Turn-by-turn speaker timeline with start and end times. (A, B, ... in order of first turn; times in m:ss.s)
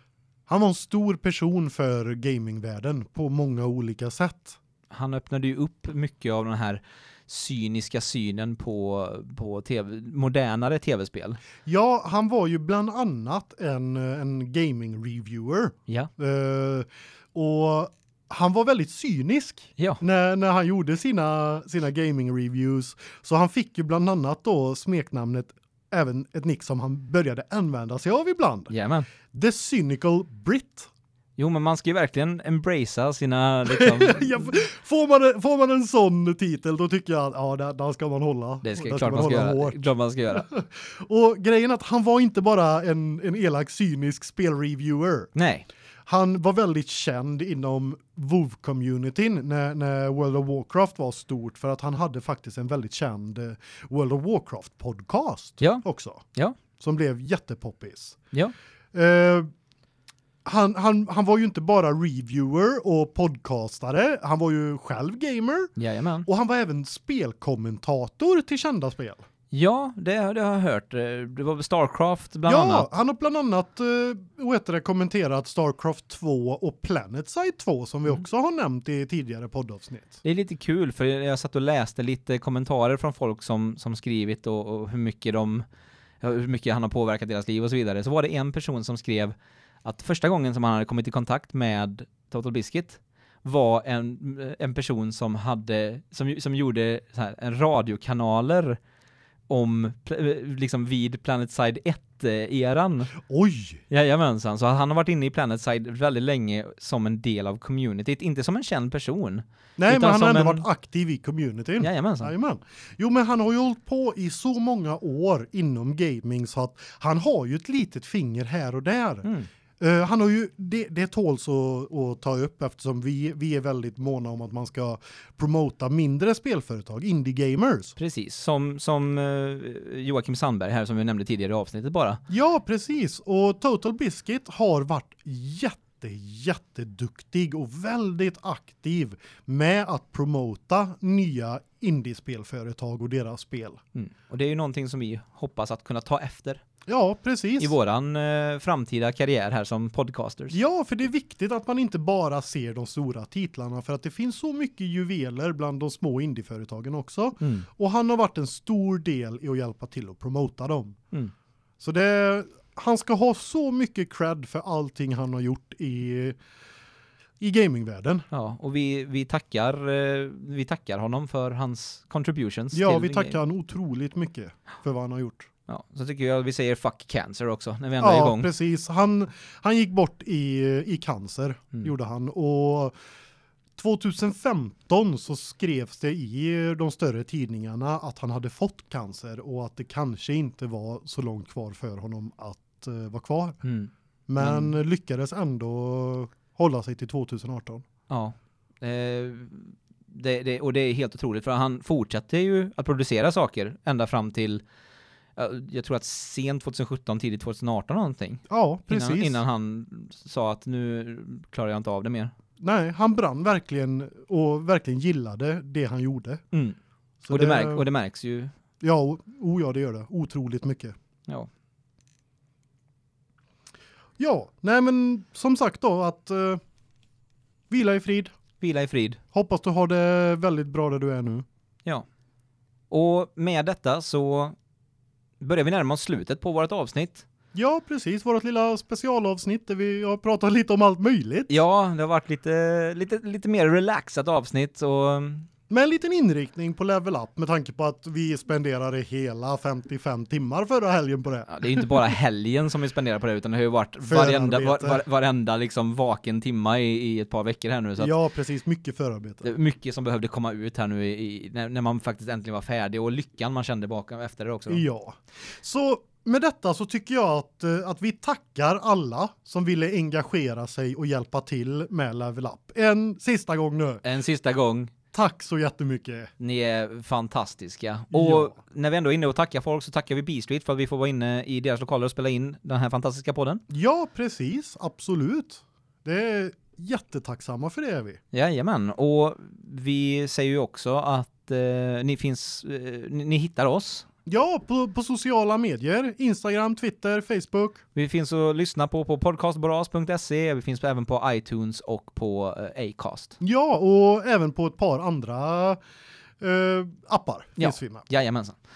0:00.5-0:04.6 A
0:04.9-0:11.4 B
0:11.6-0:28.7 A
0:28.7-0:29.1 B
0:29.3-0:30.9 A
0:31.4-0:34.4 B
0:33.7-0:45.3 A
0:38.6-0:40.5 B
0:45.4-0:45.7 B
0:46.1-0:56.2 A
0:56.8-0:58.2 A
0:58.9-0:59.5 A
1:00.4-1:05.7 A
1:05.8-1:06.3 B
1:06.3-1:09.2 A
1:09.5-1:12.9 B
1:12.5-1:20.2 A
1:20.2-1:25.6 B
1:26.2-1:38.8 B
1:39.5-1:43.1 B
1:43.2-1:43.8 A
1:43.9-1:50.7 B
1:49.8-1:59.3 A
1:51.8-1:52.3 B
1:59.2-1:59.5 B
1:59.8-2:08.0 A
2:08.0-2:12.2 B
2:12.3-2:23.8 A
2:24.0-2:26.6 B
2:26.9-2:27.7 A
2:27.6-2:30.6 B
2:30.5-2:41.0 A
2:37.4-2:37.7 B
2:41.8-2:46.4 A
2:47.4-2:48.3 A
2:48.3-2:53.4 B
2:52.7-2:55.5 A
2:55.7-2:58.5 B
2:58.0-3:02.9 A
3:03.8-3:13.6 A
3:13.6-3:14.8 B
3:14.3-3:17.8 A
3:18.1-3:24.6 B
3:25.4-3:32.3 B
3:28.5-3:29.4 A
3:32.6-3:36.4 A
3:36.5-3:36.8 B
3:37.2-3:37.8 A
3:37.3-3:38.5 B
3:38.8-3:40.9 A
3:44.2-3:46.6 A
3:47.7-3:48.3 A
3:48.6-3:49.2 B
3:49.3-3:51.4 A
3:52.9-3:54.6 B
3:55.4-3:57.3 B
3:57.5-4:01.5 A
4:01.5-4:05.5 B
4:05.7-4:12.0 A
4:11.5-4:18.1 B
4:14.0-4:15.0 A
4:18.0-4:19.5 A
4:19.4-4:24.8 B
4:24.7-4:34.0 A
4:34.0-4:34.9 B
4:35.1-4:36.3 A
4:36.4-4:43.6 B
4:38.1-4:38.6 A
4:43.7-4:48.2 A
4:48.3-4:54.1 B
4:54.3-4:57.8 A
4:58.0-5:03.4 B
5:03.4-5:05.8 A
5:06.4-5:08.0 A
5:07.6-5:08.6 B